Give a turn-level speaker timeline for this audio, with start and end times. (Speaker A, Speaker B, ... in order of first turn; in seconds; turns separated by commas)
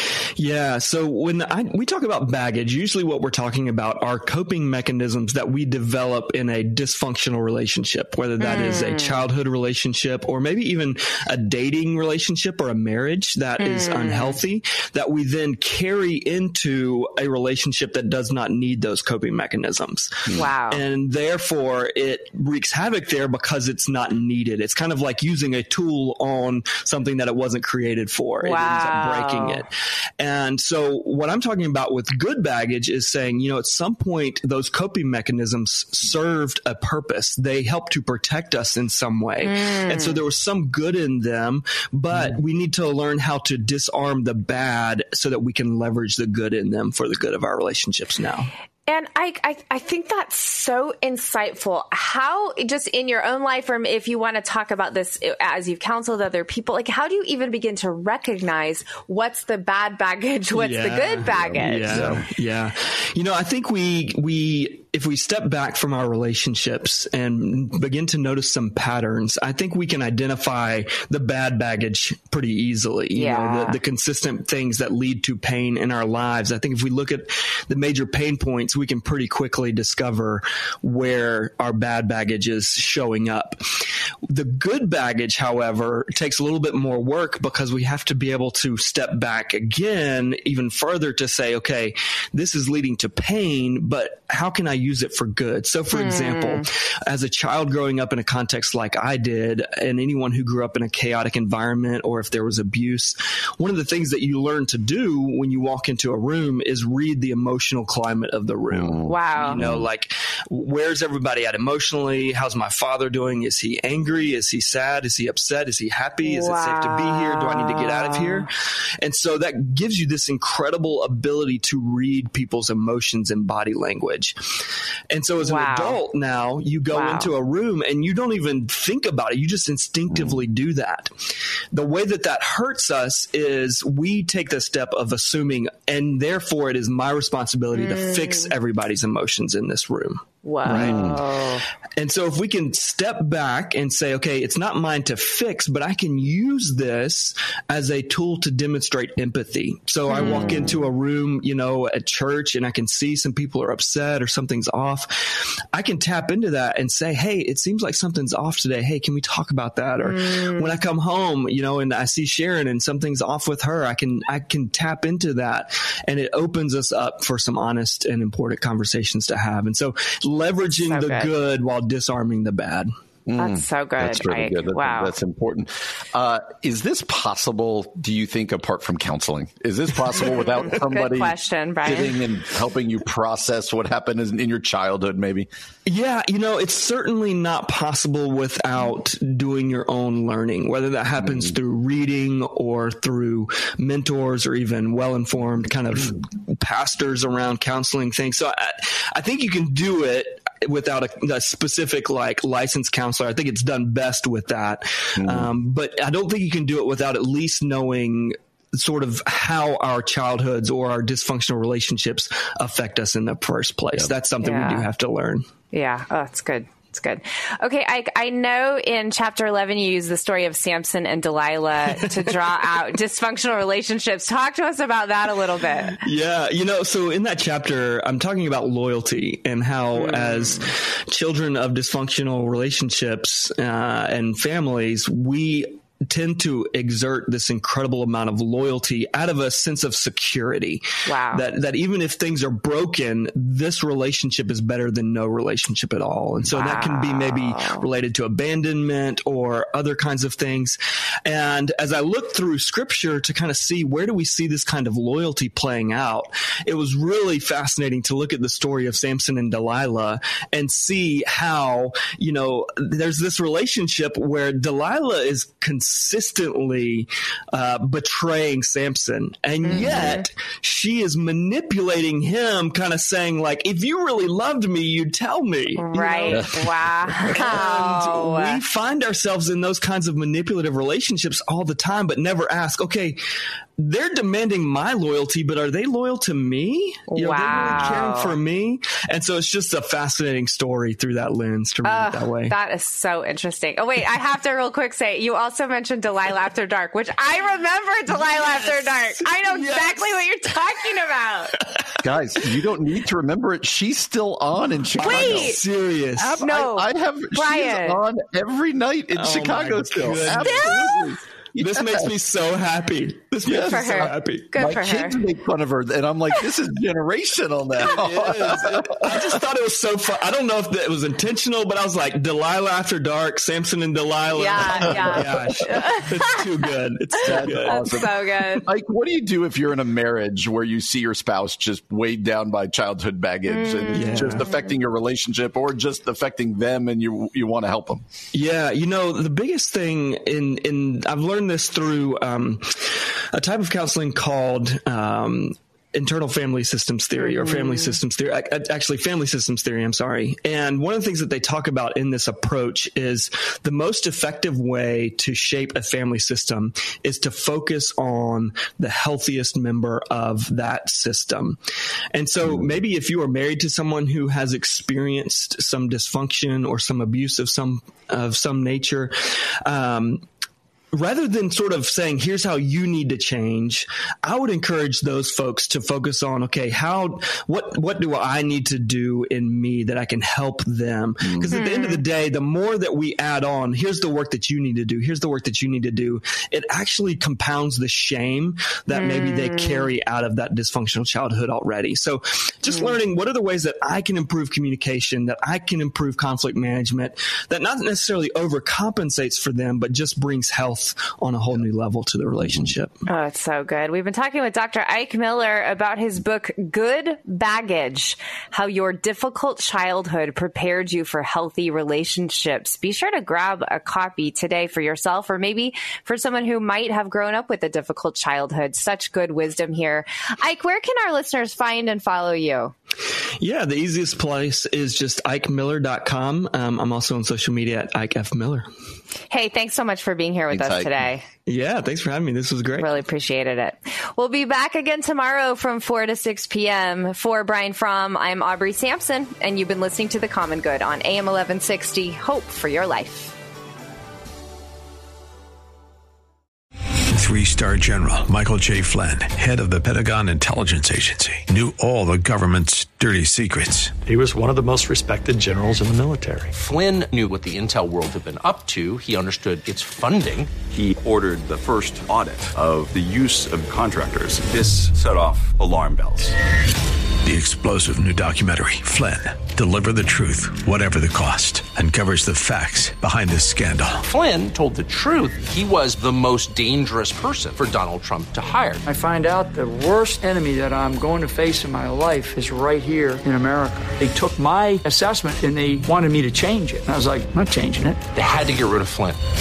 Speaker A: 0.3-48.5, Speaker B: 8.4-9.2, Speaker B: 13.6-14.4, Speaker B: 20.3-20.8, Speaker B: 28.4-29.6, Speaker B: 39.4-40.2, Speaker B: 48.9-62.2, Speaker A: 60.5-83.6, Speaker C: 61.8-62.2, Speaker B: 73.1-73.8, Speaker A: 84.2-124.3, Speaker B: 95.9-96.6, Speaker C: 108.7-109.9, Speaker B: 109.1-109.6, Speaker B: 116.2-118.5, Speaker A: 125.1-141.1, Speaker B: 125.4-126.0, Speaker B: 126.9-127.3, Speaker B: 137.7-138.5, Speaker B: 140.4-141.6, Speaker C: 140.7-141.2, Speaker A: 142.0-172.9, Speaker B: 150.1-150.8, Speaker B: 160.0-160.8, Speaker B: 170.7-171.3, Speaker C: 173.3-185.5, Speaker B: 173.4-175.1, Speaker B: 180.2-182.1, Speaker A: 185.8-215.4, Speaker C: 205.2-205.5, Speaker B: 214.4-214.9, Speaker B: 215.7-226.0, Speaker A: 225.9-283.2, Speaker B: 229.9-230.6, Speaker B: 241.1-241.5, Speaker B: 246.5-247.9, Speaker B: 269.6-270.2, Speaker B: 275.8-278.6, Speaker A: 283.8-292.5, Speaker B: 287.1-288.4, Speaker B: 291.8-301.6, Speaker A: 299.0-300.1, Speaker C: 302.0-305.6, Speaker A: 304.9-306.4, Speaker B: 305.0-305.6, Speaker C: 306.2-312.1, Speaker B: 306.4-308.0, Speaker A: 309.1-311.0, Speaker B: 310.4-311.1, Speaker A: 311.5-314.5, Speaker C: 313.4-319.1, Speaker B: 313.6-315.2, Speaker A: 317.8-327.9, Speaker B: 324.3-326.4, Speaker C: 327.2-338.0, Speaker B: 327.3-328.6, Speaker B: 333.5-334.6, Speaker A: 333.9-334.5, Speaker A: 338.3-361.6, Speaker B: 347.2-347.9, Speaker A: 362.1-370.2, Speaker A: 370.9-403.0, Speaker C: 381.2-381.5, Speaker B: 381.5-382.0, Speaker B: 389.0-389.9, Speaker B: 403.1-422.7, Speaker A: 423.4-428.7, Speaker B: 429.3-431.2, Speaker C: 430.5-430.9, Speaker A: 431.4-432.9, Speaker B: 432.8-443.3, Speaker D: 447.1-453.9, Speaker E: 454.1-456.5, Speaker F: 456.5-460.5, Speaker G: 460.7-466.4, Speaker D: 467.2-474.0, Speaker F: 474.0-478.8, Speaker H: 478.9-488.0, Speaker F: 488.1-489.2